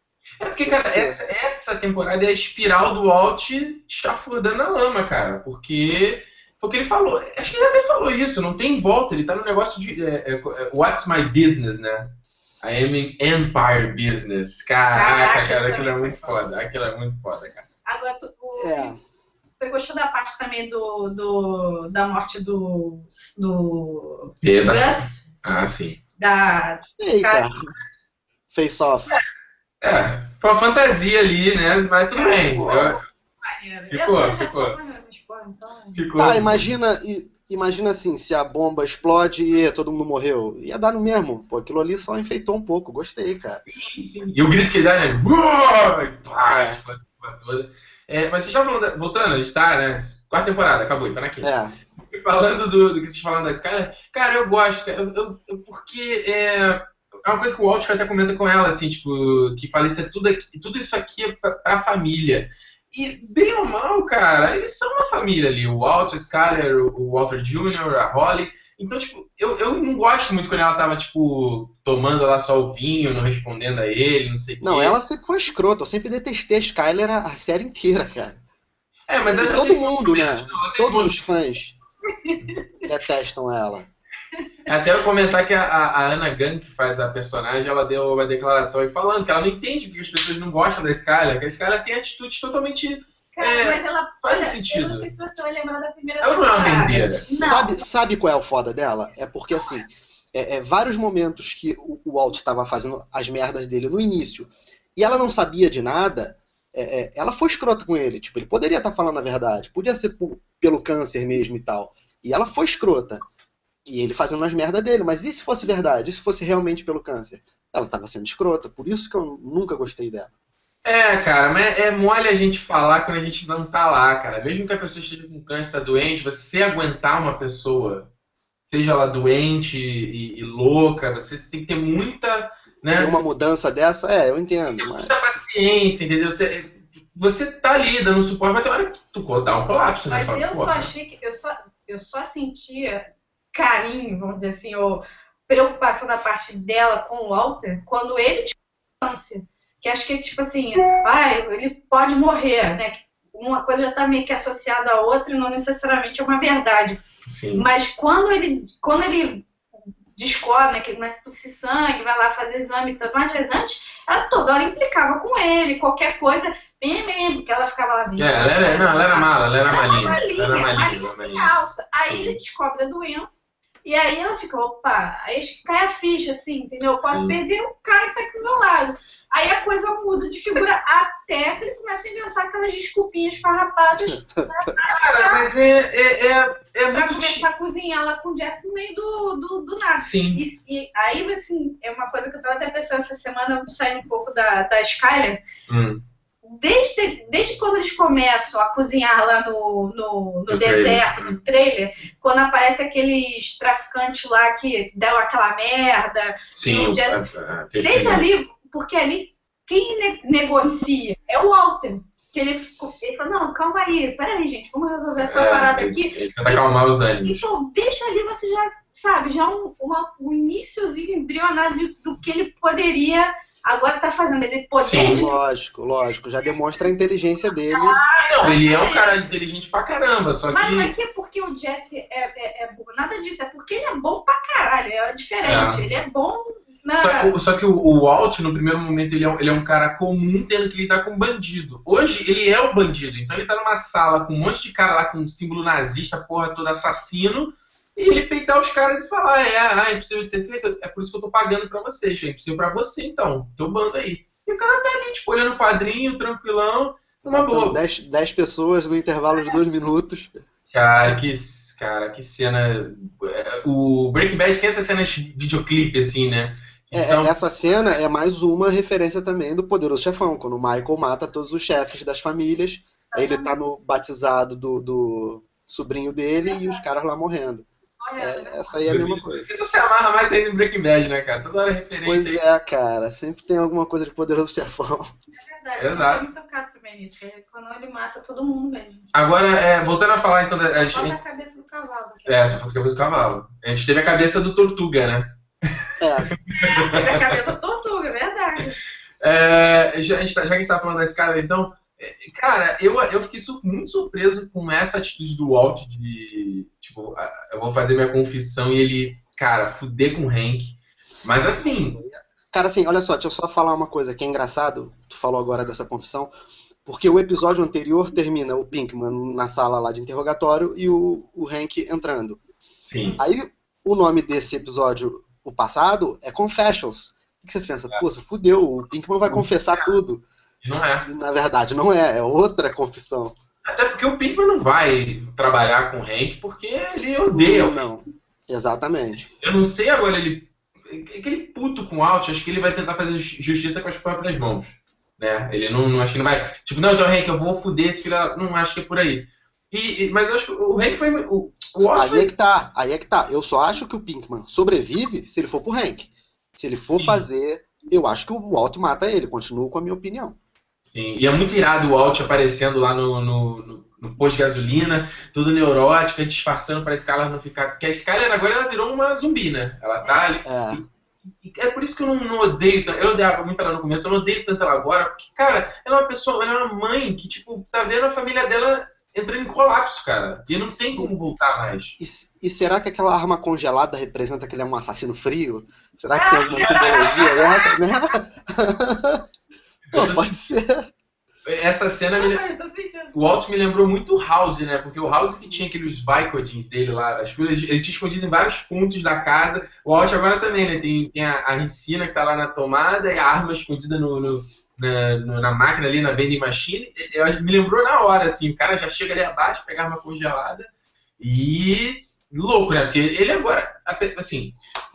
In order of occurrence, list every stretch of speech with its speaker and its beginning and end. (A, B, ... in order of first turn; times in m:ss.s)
0:00.4-0:17.6 A
0:00.6-0:01.2 B
0:14.9-0:16.3 C
0:17.9-0:18.9 C
0:18.6-0:19.0 B
0:19.6-0:25.2 C
0:24.4-0:26.0 A
0:26.2-0:27.5 C
0:27.0-0:27.7 B
0:28.5-0:29.2 B
0:29.8-0:33.0 A
0:32.1-0:36.0 C
0:32.6-0:33.0 B
0:33.9-0:34.8 A
0:36.0-0:36.7 A
0:36.2-0:43.6 B
0:43.7-0:51.5 A
0:46.4-0:46.8 B
0:51.4-0:51.8 B
0:52.1-1:15.0 A
1:14.6-1:18.4 B
1:19.1-1:21.2 A
1:19.2-1:21.8 B
1:22.2-1:22.6 C
1:22.8-1:23.9 B
1:24.7-1:35.1 A
1:33.4-1:37.8 C
1:36.2-1:37.4 A
1:36.9-1:53.2 B
1:53.9-2:00.3 B
2:00.8-2:08.1 A
2:08.7-2:13.2 A
2:13.0-2:15.2 B
2:14.8-2:20.9 A
2:20.1-2:37.0 C
2:37.2-2:37.6 A
2:37.5-2:39.5 C
2:40.2-3:05.5 C
2:48.2-2:52.4 A
2:57.0-2:57.4 A
3:04.0-3:04.5 B
3:04.8-3:07.5 A
3:06.9-3:15.4 C
3:10.0-3:10.4 A
3:15.7-3:16.0 A
3:16.4-3:27.2 C
3:20.5-3:21.4 A
3:26.5-3:28.3 A
3:27.8-3:36.6 C
3:32.7-3:33.0 A
3:35.2-3:37.5 A
3:37.2-3:45.3 C
3:44.8-3:45.2 A
3:45.0-3:48.0 B
3:47.7-3:49.2 C
3:48.2-3:50.9 A
3:50.5-3:57.3 C
3:55.4-3:55.8 A
3:57.0-4:17.8 A
4:17.2-4:20.3 B
4:20.7-4:27.3 A
4:26.9-4:39.6 B
4:33.1-4:33.5 C
4:36.4-4:36.8 C
4:38.0-4:38.8 C
4:38.8-4:42.4 A
4:42.0-4:45.1 B
4:45.4-4:49.1 C
4:45.8-4:46.3 A
4:49.1-4:51.2 A
4:50.6-4:52.6 C
4:52.2-4:57.3 A
4:56.0-4:56.3 B
4:56.5-4:58.8 C
4:59.2-5:12.0 A
5:11.5-5:16.3 B
5:16.8-5:22.4 B
5:22.8-5:23.2 A
5:23.2-5:30.2 B
5:29.2-5:29.9 A
5:30.6-5:31.0 A
5:31.0-5:33.4 B
5:33.6-5:37.8 A
5:37.3-5:39.3 B
5:39.4-5:52.3 A
5:51.8-6:00.4 B
5:56.9-5:57.2 A
6:00.9-6:10.9 A
6:10.4-6:10.8 B
6:11.4-6:22.0 A
6:22.0-6:29.2 B
6:26.2-6:27.8 C
6:26.6-6:27.3 A
6:29.9-6:30.4 A
6:29.9-6:30.9 B
6:31.4-6:32.5 A
6:32.2-6:33.2 C
6:33.1-6:54.5 A